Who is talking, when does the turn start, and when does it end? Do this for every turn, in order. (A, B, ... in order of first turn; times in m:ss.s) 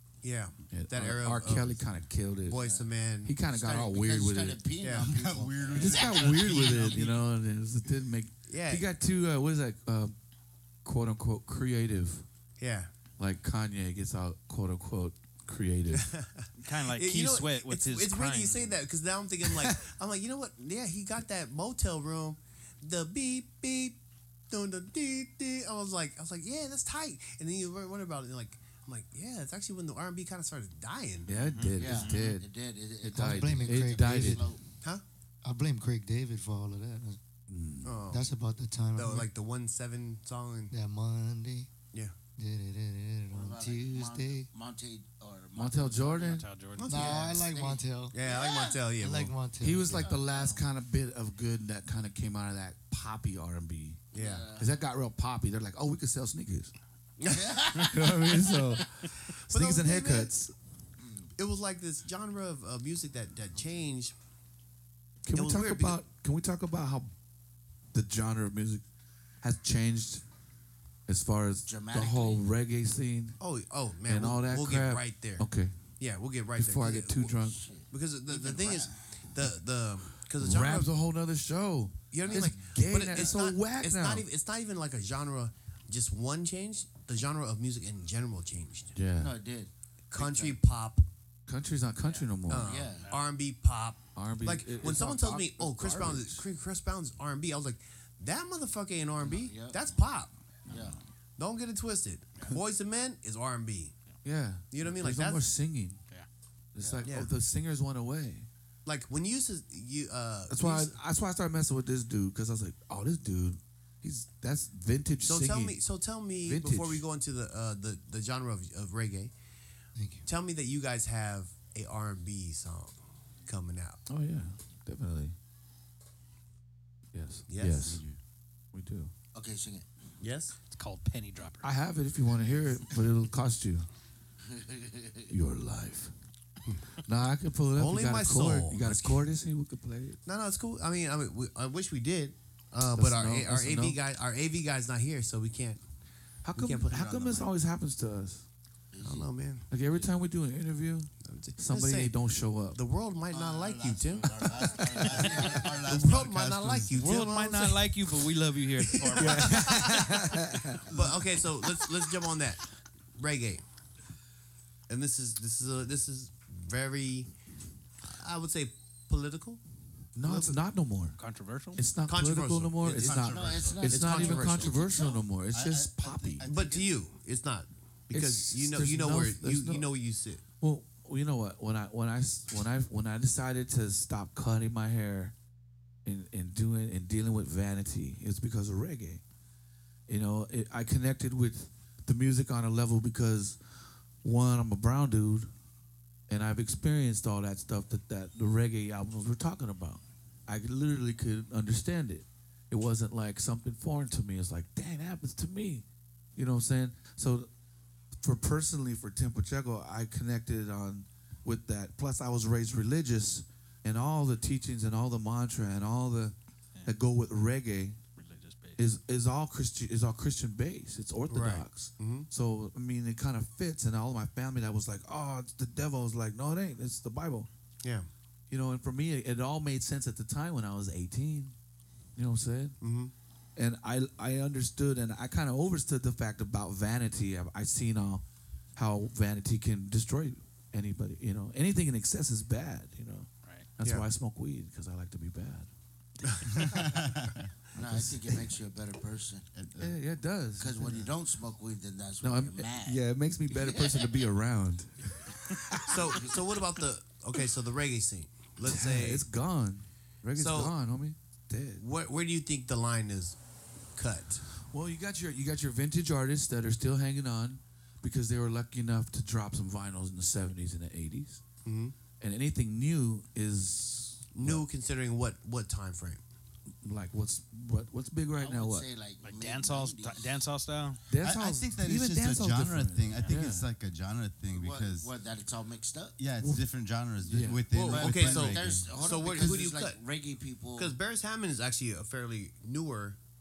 0:00.2-0:01.8 A
0:00.7-0:02.6 B
0:02.4-0:03.4 A
0:02.5-0:02.9 C
0:03.2-0:04.6 B
0:03.4-0:06.9 C
0:04.8-0:05.1 A
0:04.9-0:07.1 D
0:05.7-0:10.1 B
0:08.5-0:08.8 A
0:10.8-0:12.2 B
0:12.6-0:12.9 A
0:13.2-0:16.1 B
0:15.9-0:24.0 A
0:16.6-0:18.8 E
0:19.4-0:19.8 B
0:24.5-0:31.3 A
0:31.3-0:32.4 B
0:31.3-0:32.4 E
0:31.8-0:34.6 C
0:33.0-0:34.6 B
0:33.1-0:34.4 F
0:35.4-0:37.2 F
0:37.5-0:38.0 B
0:37.8-0:38.3 A
0:38.1-0:39.3 F
0:38.9-0:40.7 A
0:40.7-0:41.7 F
0:42.4-0:44.5 F
0:43.3-0:48.8 C
0:45.5-0:46.4 B
0:46.2-0:47.1 E
0:46.8-0:47.4 A
0:46.9-0:48.2 F
0:48.1-0:49.3 A
0:49.0-0:50.0 F
0:49.6-0:54.0 B
0:49.9-0:50.7 C
0:54.1-0:54.5 A
0:54.1-0:54.7 C
0:54.6-0:56.7 B
0:57.2-0:57.9 A
0:57.3-0:58.3 C
0:57.7-1:00.5 B
0:59.5-1:00.3 A
1:01.0-1:01.3 C
1:01.4-1:04.1 A
1:05.2-1:07.1 B
1:05.3-1:06.0 A
1:07.9-1:08.8 B
1:09.4-1:10.2 B
1:11.1-1:13.4 B
1:11.6-1:12.4 C
1:13.4-1:15.5 A
1:14.0-1:15.7 B
1:16.0-1:17.3 A
1:16.6-1:17.6 B
1:17.4-1:18.9 C
1:17.9-1:20.9 A
1:20.4-1:24.3 B
1:22.1-1:29.0 A
1:22.3-1:22.6 C
1:28.9-1:29.3 B
1:29.1-1:30.6 C
1:30.1-1:31.0 A
1:31.5-1:32.7 B
1:32.5-1:40.3 A
1:32.5-1:33.2 C
1:32.9-1:33.2 E
1:34.1-1:36.4 B
1:39.2-1:39.8 C
1:40.7-1:41.0 C
1:41.4-1:43.9 A
1:44.2-1:46.0 B
1:44.7-1:45.4 A
1:46.7-1:48.5 B
1:46.8-1:47.1 C
1:47.0-1:47.3 A
1:48.8-1:50.9 A
1:50.5-1:55.8 B
1:55.2-1:59.3 A
1:56.4-1:57.0 B
2:00.0-2:00.3 F
2:00.2-2:04.0 A
2:04.1-2:05.3 B
2:07.1-2:08.0 B
2:07.5-2:08.0 A
2:07.8-2:08.2 D
2:08.7-2:09.1 B
2:09.3-2:09.9 C
2:10.2-2:10.5 A
2:10.7-2:11.7 E
2:11.6-2:13.9 B
2:14.5-2:15.3 C
2:15.3-2:16.1 B
2:17.0-2:20.2 B
2:17.8-2:19.2 A
2:20.2-2:25.8 A
2:22.9-2:24.0 B
2:26.4-2:28.5 B
2:26.5-2:27.4 A
2:28.9-2:29.3 C
2:29.0-2:29.6 A
2:29.7-2:32.8 B
2:29.8-2:30.1 C
2:31.2-2:32.1 A
2:32.7-2:38.2 A
2:33.3-2:37.0 D
2:33.4-2:35.8 C
2:36.9-2:39.7 E
2:38.8-2:40.2 A
2:39.2-2:41.0 B
2:40.9-2:43.6 A
2:44.9-2:47.3 A
2:48.0-2:49.6 A
2:50.2-2:51.2 B
2:50.2-2:50.6 A
2:51.2-2:51.8 E
2:51.8-2:56.5 B
2:52.1-2:54.8 A
2:53.0-2:55.3 C
2:53.4-2:53.8 D
2:55.5-2:56.9 D
2:56.4-3:00.4 A
2:58.1-2:59.9 B
3:00.6-3:05.3 B
3:06.0-3:09.2 B
3:10.1-3:13.6 B
3:14.2-3:15.5 B
3:16.3-3:25.8 B
3:26.4-3:27.5 B
3:28.2-3:38.0 B
3:38.2-3:38.8 E
3:38.8-3:47.5 B
3:41.3-3:42.3 A
3:47.8-3:48.1 A
3:48.5-3:51.5 B
3:52.2-3:52.8 B
3:52.8-3:53.1 A
3:53.6-3:58.2 B
3:58.8-4:05.7 B
4:06.2-4:06.8 A
4:06.5-4:07.5 D
4:07.7-4:09.4 C
4:09.5-4:10.0 D
4:09.8-4:11.1 B
4:10.6-4:14.2 C
4:12.2-4:16.2 B
4:15.9-4:19.2 A
4:18.6-4:21.8 B
4:20.4-4:20.7 A
4:21.8-4:23.4 A
4:24.0-4:24.4 A
4:24.7-4:31.4 B
4:31.6-4:31.9 A
4:32.2-4:34.6 B
4:34.3-4:36.2 A
4:36.8-4:38.9 B
4:38.4-4:40.4 C
4:39.2-4:41.0 E
4:41.1-4:43.7 B
4:41.2-4:45.1 D
4:44.5-4:46.2 C
4:46.2-4:48.9 D
4:46.4-4:46.6 B
4:47.2-4:48.3 B
4:47.9-4:51.0 C
4:47.9-4:50.0 A
4:50.8-4:53.2 A